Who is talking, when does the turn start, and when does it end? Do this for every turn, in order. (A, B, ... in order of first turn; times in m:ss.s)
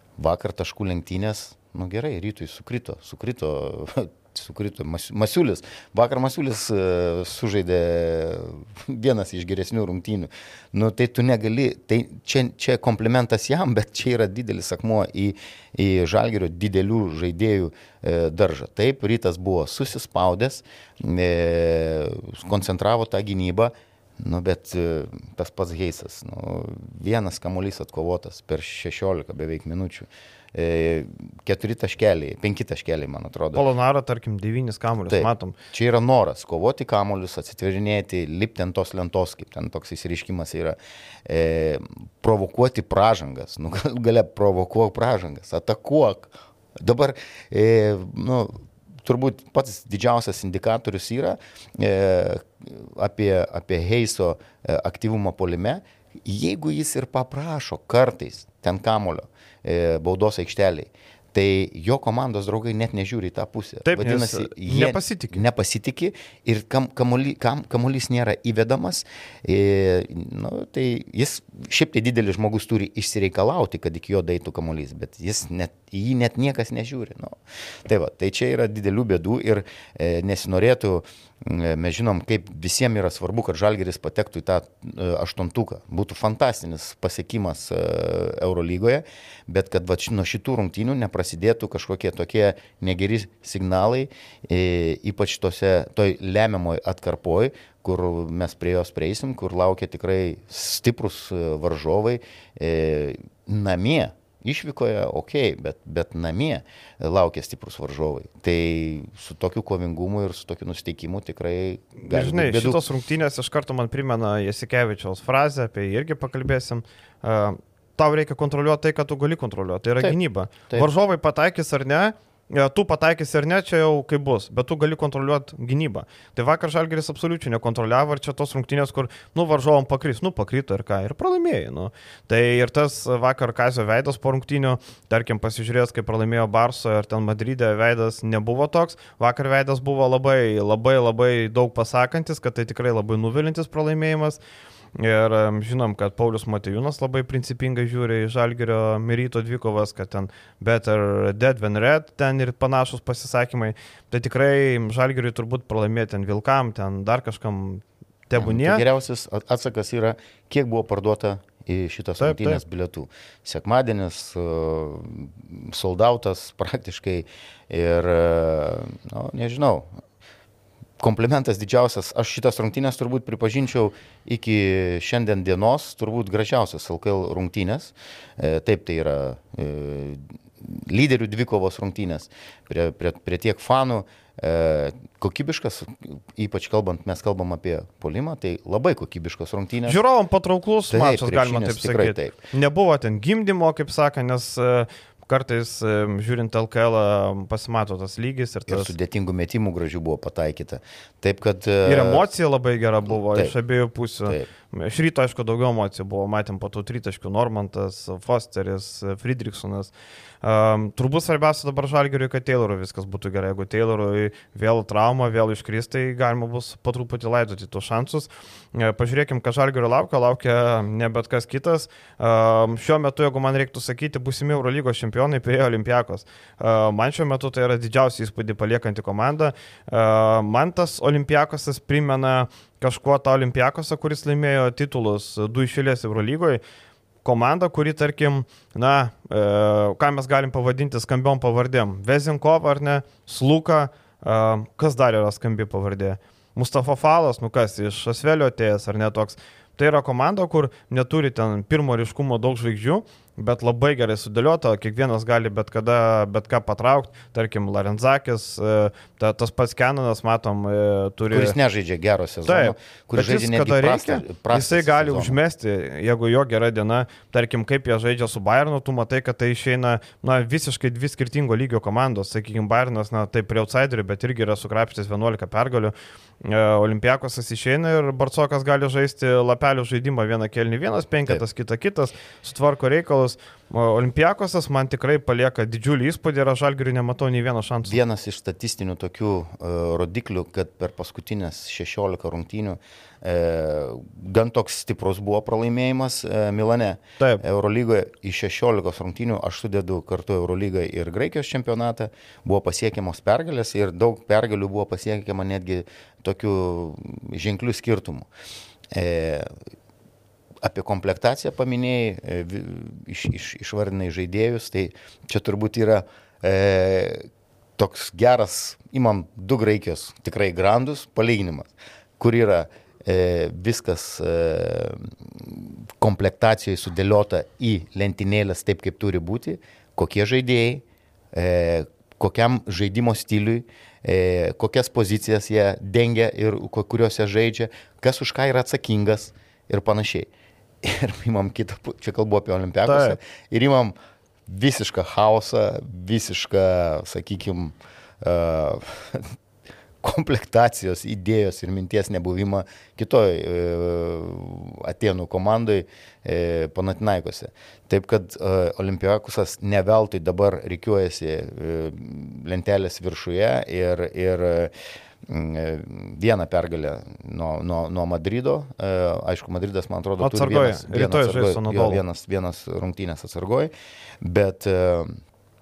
0:00.2-0:33.6 A
0:33.5-0:35.5 B
0:35.1-1:52.8 A
1:03.8-1:05.4 B
1:52.0-2:24.4 B
2:25.0-2:38.8 B
2:38.4-2:49.9 A
2:42.2-2:42.6 B
2:51.0-3:10.0 A
3:09.9-3:18.9 B
3:10.9-3:12.4 A
3:18.7-3:22.2 A
3:21.8-3:29.9 B
3:23.1-3:23.5 A
3:30.4-3:56.6 B
3:57.2-4:21.6 B
4:21.3-4:25.4 A
4:22.4-4:48.0 B
4:47.9-5:08.3 A
5:08.9-5:09.5 A
5:10.6-5:17.2 A
5:17.8-5:40.3 A
5:40.8-5:43.9 A
5:42.9-5:43.2 B
5:44.5-5:49.3 A
5:50.0-6:04.7 A
6:05.2-6:13.7 A
6:10.2-6:12.0 B
6:14.2-6:15.1 A